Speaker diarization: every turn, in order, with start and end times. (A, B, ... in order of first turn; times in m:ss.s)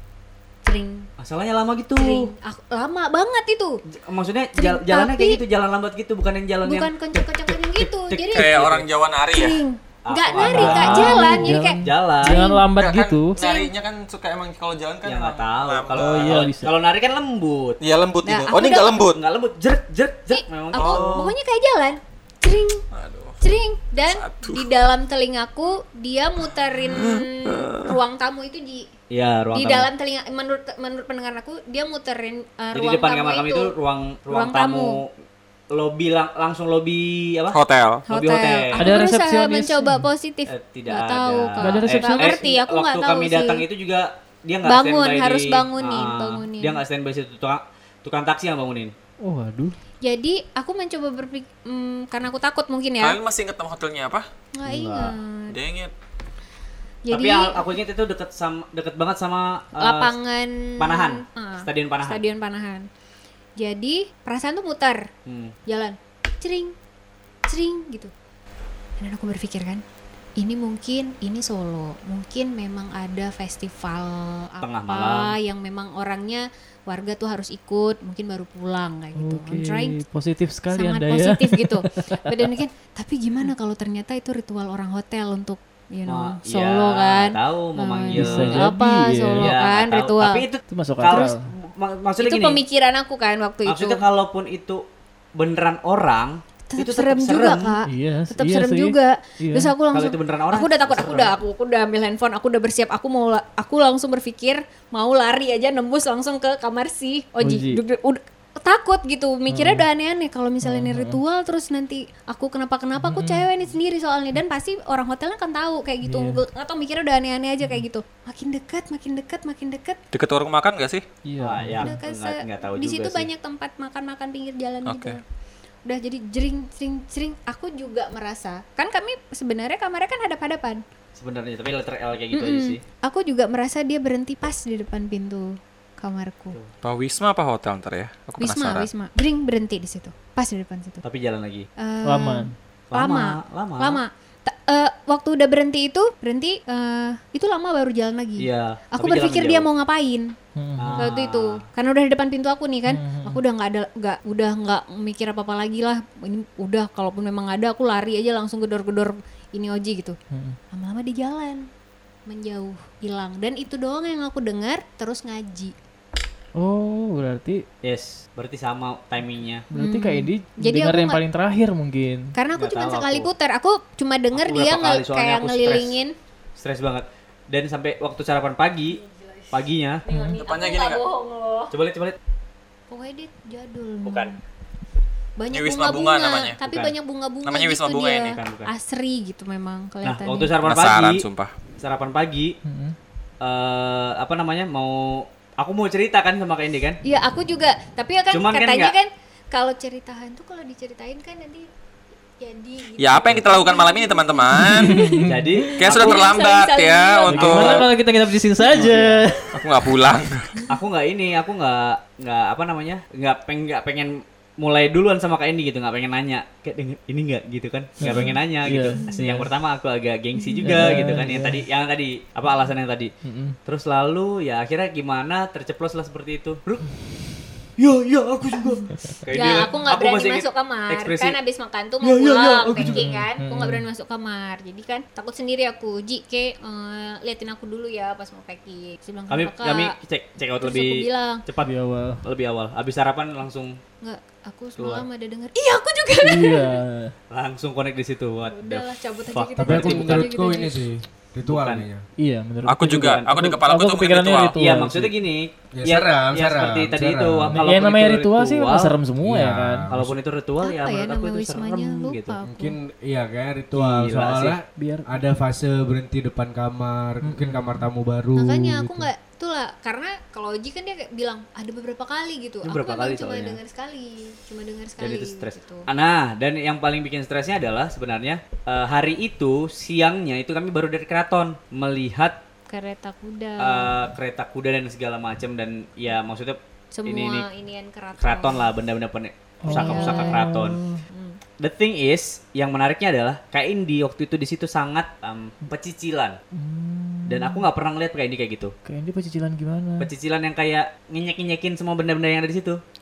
0:00.6-0:01.1 A
0:01.2-0:02.3 B
0:02.0-0:03.8 A
0:04.0-0:08.8 B
0:04.6-0:05.4 A
0:06.6-0:08.6 A
0:08.3-0:09.6 C
0:09.3-0:12.6 A
0:10.0-0:12.4 B
0:10.4-0:13.4 D
0:12.8-0:16.5 C
0:13.4-0:13.7 A
0:15.0-0:17.8 B
0:15.9-0:16.7 D
0:17.8-0:19.2 C
0:18.2-0:19.0 A
0:19.1-0:21.3 B
0:20.3-0:22.8 A
0:20.7-0:21.2 C
0:22.9-0:23.4 C
0:23.4-0:28.9 A
0:24.0-0:24.7 C
0:26.9-0:28.0 C
0:29.1-0:29.9 B
0:29.5-0:33.7 A
0:32.7-0:35.1 B
0:34.3-0:35.0 A
0:35.7-0:37.6 B
0:37.5-0:38.0 C
0:38.1-0:43.6 A
0:38.1-0:38.9 B
0:38.8-0:40.1 D
0:40.4-0:48.9 B
0:41.6-0:42.4 D
0:44.6-0:46.8 A
0:49.2-0:49.8 D
0:50.0-0:53.2 A
0:53.0-0:54.2 C
0:54.5-0:55.6 A
0:54.6-0:55.1 B
0:55.5-0:55.9 C
0:57.0-0:57.6 A
0:57.1-1:00.1 B
0:59.8-1:02.9 A
1:00.8-1:02.2 B
1:03.6-1:05.1 A
1:05.2-1:05.5 B
1:05.7-1:06.7 A
1:07.5-1:08.1 A
1:09.0-1:09.8 A
1:10.4-1:20.0 A
1:14.6-1:15.3 B
1:19.1-1:22.5 D
1:20.7-1:30.4 A
1:26.0-1:28.7 B
1:28.1-1:29.5 D
1:29.4-1:32.6 B
1:30.7-1:31.5 D
1:31.1-1:31.3 A
1:32.2-1:34.0 A
1:33.6-1:34.8 B
1:35.3-1:37.8 B
1:36.7-2:00.0 A
1:37.8-1:39.7 D
1:39.9-1:41.3 B
1:47.4-1:47.8 D
1:49.5-1:49.8 D
1:50.6-1:51.2 D
1:53.0-1:53.4 D
1:56.0-1:56.4 D
2:00.1-2:01.0 C
2:01.2-2:02.0 D
2:01.4-2:03.3 B
2:01.8-2:05.2 A
2:04.8-2:05.2 C
2:05.8-2:10.8 A
2:11.2-2:12.8 B
2:12.3-2:16.6 A
2:16.8-2:18.9 C
2:18.4-2:21.0 A
2:21.0-2:21.7 B
2:21.8-2:30.4 A
2:22.0-2:22.5 D
2:22.9-2:24.0 B
2:28.4-2:29.7 B
2:30.6-2:31.1 D
2:30.8-2:31.6 B
2:31.0-2:40.2 A
2:32.9-2:33.4 D
2:40.3-2:40.6 D
2:40.7-2:41.7 A
2:42.2-2:45.7 A
2:46.6-2:47.6 D
2:47.8-2:49.6 B
2:49.7-2:51.2 A
2:49.7-2:52.3 D
2:52.3-2:56.1 A
2:52.5-2:53.3 B
2:54.3-2:56.0 B
2:56.6-2:59.0 B
2:59.0-2:59.4 A
2:59.5-3:00.0 B
3:00.0-3:01.7 A
3:00.1-3:00.4 D
3:00.4-3:01.0 C
3:01.7-3:02.2 B
3:02.9-3:04.4 A
3:04.0-3:04.4 B
3:05.4-3:10.5 A
3:05.5-3:06.6 C
3:06.6-3:06.9 B
3:07.4-3:08.4 C
3:08.3-3:08.7 B
3:10.0-3:11.2 B
3:10.6-3:11.5 C
3:11.8-3:12.5 B
3:12.6-3:13.0 D
3:13.4-3:17.0 B
3:17.0-3:21.6 A
3:18.3-3:18.9 B
3:22.4-3:25.2 A
3:23.0-3:25.1 C
3:24.6-3:25.6 D
3:25.2-3:26.2 B
3:25.8-3:27.8 C
3:25.8-3:27.8 A
3:27.3-3:29.6 D
3:27.4-3:27.8 B
3:28.8-3:29.0 B
3:29.5-3:30.6 C
3:30.7-3:43.1 B
3:38.0-3:39.5 D
3:40.4-3:40.7 A
3:40.6-3:41.6 D
3:43.2-3:43.6 D
3:43.6-3:46.9 B
3:47.8-3:51.4 B
3:49.3-3:59.9 A
3:52.0-3:53.1 B
3:52.8-3:53.8 D
3:59.3-4:03.8 B
4:00.6-4:01.4 A
4:01.6-4:02.2 D
4:04.0-4:06.8 A
4:04.8-4:05.0 B
4:06.2-4:07.1 D
4:07.3-4:10.3 B
4:08.5-4:10.8 A
4:09.6-4:12.0 E
4:11.4-4:11.8 B
4:12.2-4:15.1 D
4:12.6-4:14.6 C
4:13.0-4:13.3 B
4:14.6-4:19.0 B
4:15.7-4:17.6 E
4:17.5-4:19.9 D
4:19.2-4:20.2 E
4:19.9-4:22.4 B
4:20.6-4:22.8 A
4:22.4-4:29.1 E
4:23.7-4:24.6 B
4:24.7-4:25.2 D
4:27.2-4:27.9 D
4:28.4-4:35.9 A
4:32.6-4:33.6 B
4:35.0-4:42.4 B
4:42.7-4:43.9 A
4:43.6-4:47.4 B
4:46.9-4:48.7 A
4:48.2-4:50.8 B
4:49.6-4:51.0 D
4:49.7-4:50.4 A
4:51.1-4:51.4 A
4:51.6-4:56.4 B
4:56.5-4:57.6 D
4:57.3-4:58.7 B
4:58.8-5:00.1 D
5:00.0-5:02.8 B